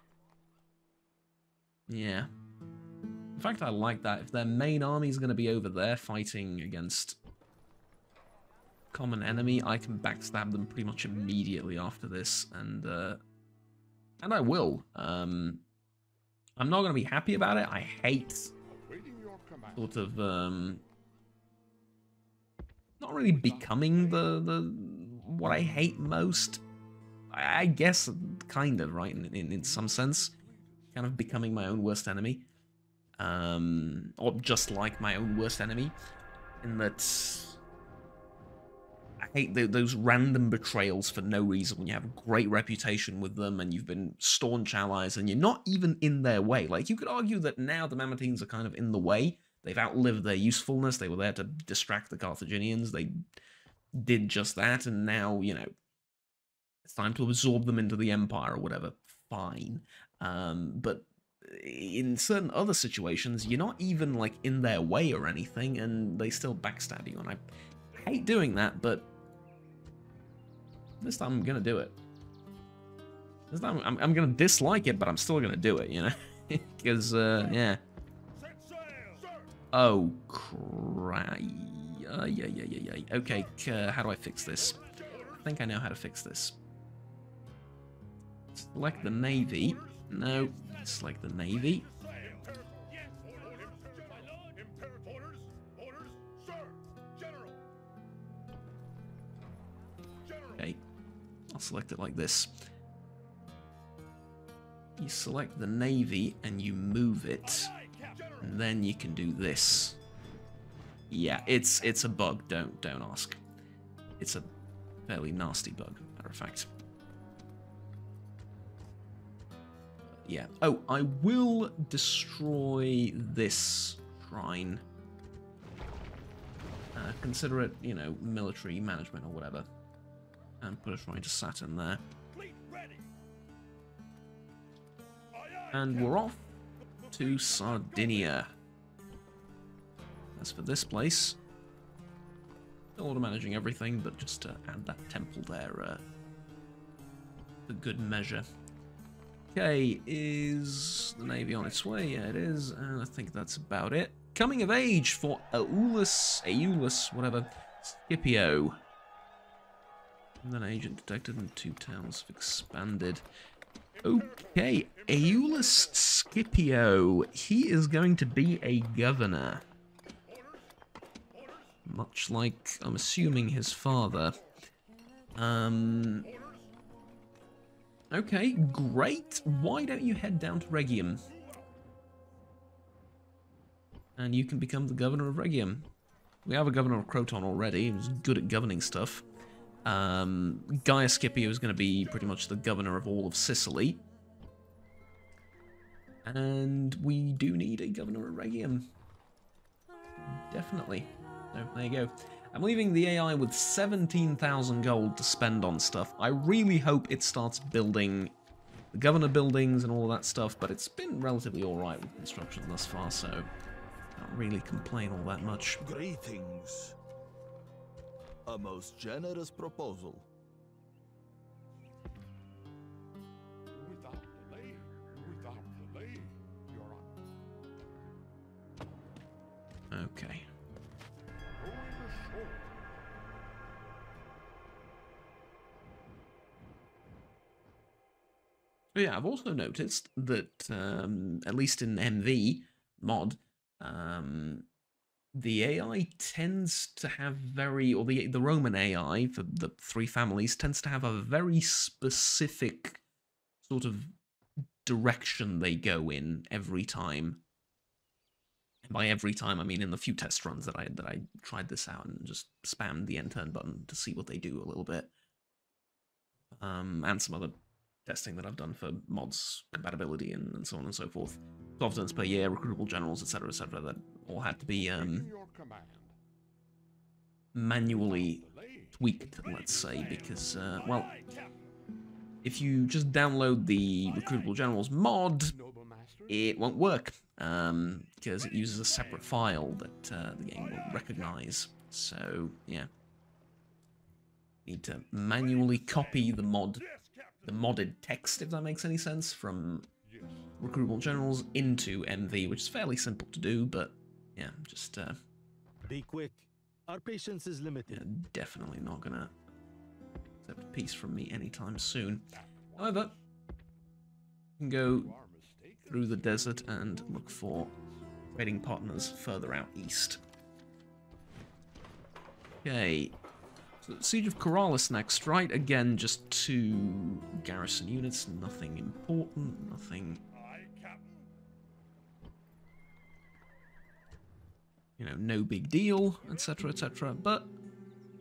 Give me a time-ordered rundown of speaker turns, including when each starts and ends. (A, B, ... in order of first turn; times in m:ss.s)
0:01.9-0:02.3 A
0:03.4-0:07.2 A
0:08.9-0:13.2 A
0:14.2-0:15.6 A
0:16.6-0:18.5 A
0:18.6-0:20.1 B
0:19.7-0:20.8 A
0:23.0-0:26.6 A
0:23.2-0:24.4 B
0:27.3-0:30.3 A
0:29.6-0:31.0 B
0:30.9-0:32.4 A
0:33.2-0:36.0 A
0:36.6-0:37.6 A
0:39.2-0:53.1 A
0:53.9-0:55.7 A
0:56.8-1:07.4 A
1:07.9-1:09.1 A
1:11.0-1:12.0 A
1:13.5-1:17.8 A
1:18.9-1:19.2 B
1:19.7-1:26.6 A
1:28.5-1:31.9 A
1:32.2-1:35.3 B
1:40.5-1:40.8 A
1:41.5-1:42.7 A
1:45.0-1:47.8 A
1:48.3-1:50.0 A
1:51.1-1:53.4 A
1:54.2-1:54.4 A
1:55.0-1:56.7 A
2:00.2-2:04.8 A
2:06.9-2:09.7 A
2:10.6-2:12.0 A
2:12.4-2:12.9 B
2:15.7-2:16.5 A
2:17.1-2:18.5 A
2:20.4-2:21.4 A
2:23.0-2:26.0 A
2:27.7-2:28.4 A
2:29.5-2:38.8 A
2:40.4-2:43.2 A
2:44.0-2:49.6 A
2:51.8-2:54.4 A
2:55.4-2:56.3 A
2:58.1-3:01.2 A
3:04.2-3:05.9 A
3:06.4-3:09.2 A
3:09.8-3:14.0 A
3:16.2-3:18.9 A
3:20.3-3:28.3 A
3:28.9-3:33.5 A
3:34.2-3:35.8 A
3:35.8-3:36.9 C
3:38.4-3:40.3 C
3:43.7-3:47.2 B
3:49.9-3:50.5 A
3:51.6-3:52.7 B
3:58.9-4:04.7 A
4:05.3-4:13.0 A
4:13.6-4:14.1 A
4:14.8-4:17.4 A
4:18.8-4:25.1 A
4:26.6-4:27.5 A
4:28.0-4:35.3 A
4:34.8-4:36.1 B
4:37.5-4:41.2 A
4:37.8-4:39.2 B
4:42.4-4:45.5 A
4:45.5-4:46.4 B
4:46.3-4:52.9 A
4:54.6-4:56.8 A
4:56.8-4:57.4 B
4:57.4-4:59.9 A
5:00.0-5:00.6 B
5:00.6-5:05.2 A
5:05.9-5:08.0 D
5:07.9-5:09.3 A
5:10.4-5:13.1 A
5:12.3-5:13.2 B
5:14.6-5:15.1 A
5:14.8-5:18.1 B
5:15.9-5:17.7 A
5:18.3-5:20.2 A
5:22.6-5:23.2 A
5:23.8-5:30.2 A
5:35.0-5:37.5 A